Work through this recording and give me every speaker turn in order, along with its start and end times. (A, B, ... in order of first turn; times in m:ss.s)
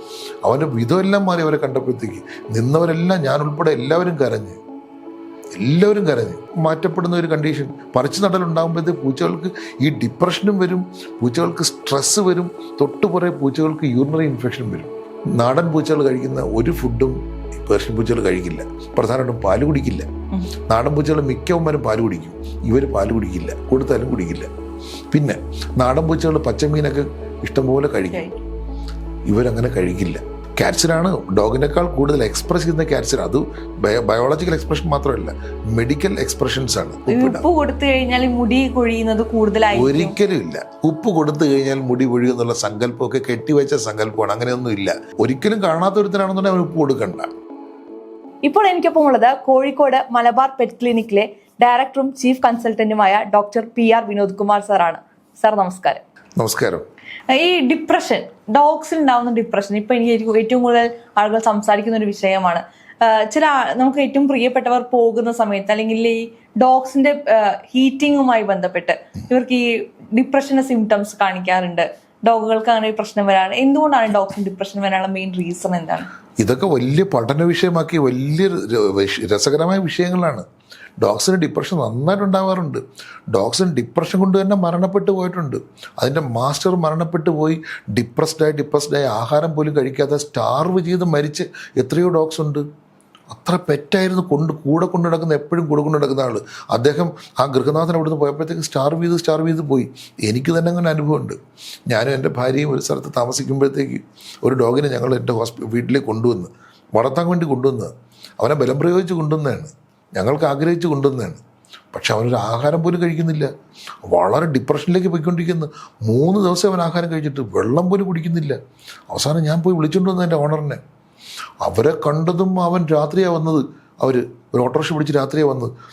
0:00.4-0:04.6 A
0:05.5-0:20.1 A
0:20.7-0:24.5 A
0:25.1-0:28.3 A
0:28.1-0:28.4 B
0:29.3-0:37.4 A
0:37.1-0:40.2 B
0:39.7-0:47.3 A
0:48.4-0:56.0 B
0:56.4-0:56.8 A
0:57.3-1:16.1 B
1:16.4-1:20.5 A
1:21.0-1:22.8 A
1:23.3-1:32.6 A
1:33.3-1:41.4 A
1:41.9-1:51.4 A
1:51.9-1:53.5 A
1:54.0-1:58.6 A
1:59.1-2:00.8 A
2:01.6-2:05.7 A